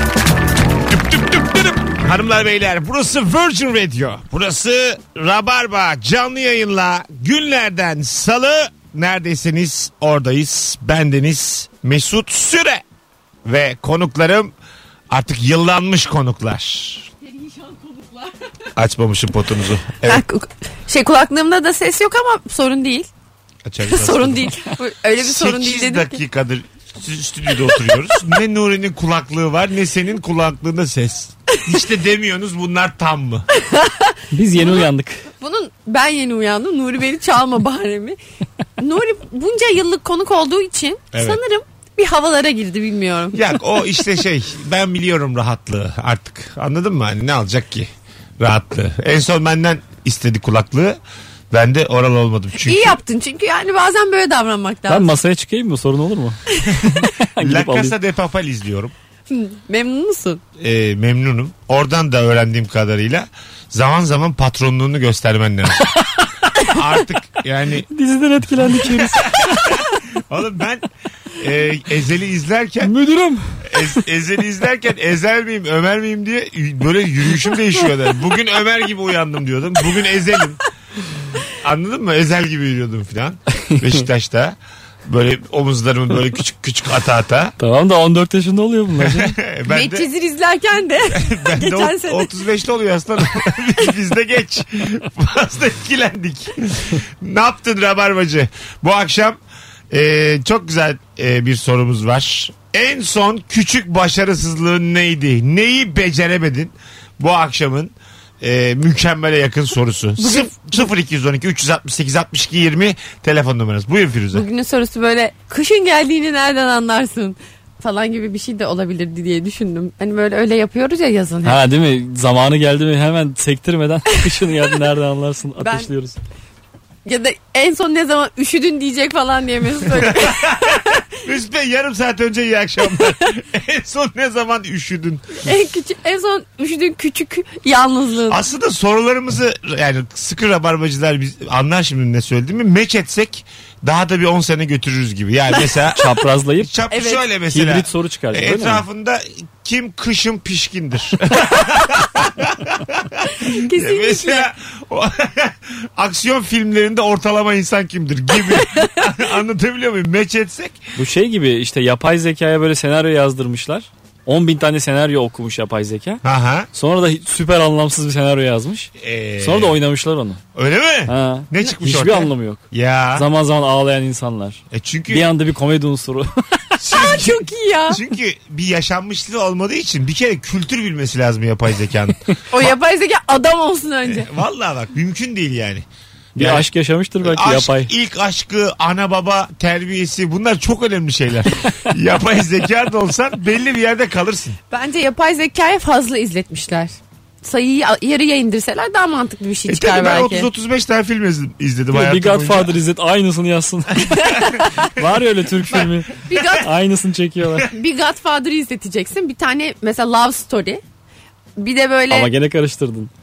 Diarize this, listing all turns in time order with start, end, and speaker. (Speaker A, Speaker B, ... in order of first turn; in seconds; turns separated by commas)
Speaker A: 0.9-12.8, Speaker A: 13.4-14.5, Speaker A: 15.1-17.1, Speaker B: 17.2-18.3, Speaker A: 18.8-20.2, Speaker B: 20.0-23.1, Speaker A: 23.6-24.5, Speaker B: 23.9-26.2, Speaker A: 25.2-33.4, Speaker B: 33.6-38.2, Speaker C: 34.3-35.2, Speaker B: 38.8-43.4, Speaker A: 41.1-41.4, Speaker A: 43.3-51.0, Speaker A: 51.5-53.0, Speaker B: 52.6-55.1, Speaker C: 54.9-56.4, Speaker A: 56.7-58.9, Speaker C: 57.2-57.9, Speaker B: 59.3-60.4, Speaker A: 60.6-66.0, Speaker A: 66.6-67.9, Speaker C: 67.9-69.7, Speaker A: 68.7-72.9, Speaker C: 72.8-73.7, Speaker A: 73.6-80.6, Speaker A: 81.6-84.5, Speaker A: 85.1-87.5, Speaker C: 87.6-89.3, Speaker A: 89.0-90.0, Speaker B: 89.7-92.3, Speaker A: 91.1-99.4, Speaker A: 99.9-114.4, Speaker B: 110.2-110.8, Speaker B: 114.3-121.6, Speaker C: 121.4-126.2, Speaker B: 125.6-125.9, Speaker B: 127.0-131.0, Speaker A: 130.0-135.2, Speaker B: 135.4-138.4, Speaker A: 138.3-146.0, Speaker C: 146.0-146.7, Speaker A: 146.6-160.8, Speaker B: 146.9-147.2, Speaker C: 147.5-148.8, Speaker B: 153.4-154.4, Speaker C: 160.9-170.4, Speaker A: 166.2-166.7, Speaker A: 169.0-169.7, Speaker A: 170.5-173.2, Speaker C: 171.1-176.3, Speaker A: 174.7-175.3, Speaker A: 176.8-182.7, Speaker B: 176.9-178.0, Speaker B: 182.5-184.3, Speaker A: 184.1-185.8, Speaker C: 186.3-187.9, Speaker A: 186.4-186.7, Speaker A: 187.2-194.6, Speaker B: 194.7-196.9, Speaker B: 197.4-200.5, Speaker A: 199.7-202.8, Speaker C: 201.9-207.7, Speaker B: 204.2-204.9, Speaker B: 205.7-206.7, Speaker B: 207.7-210.8, Speaker B: 211.6-212.3, Speaker C: 212.1-213.1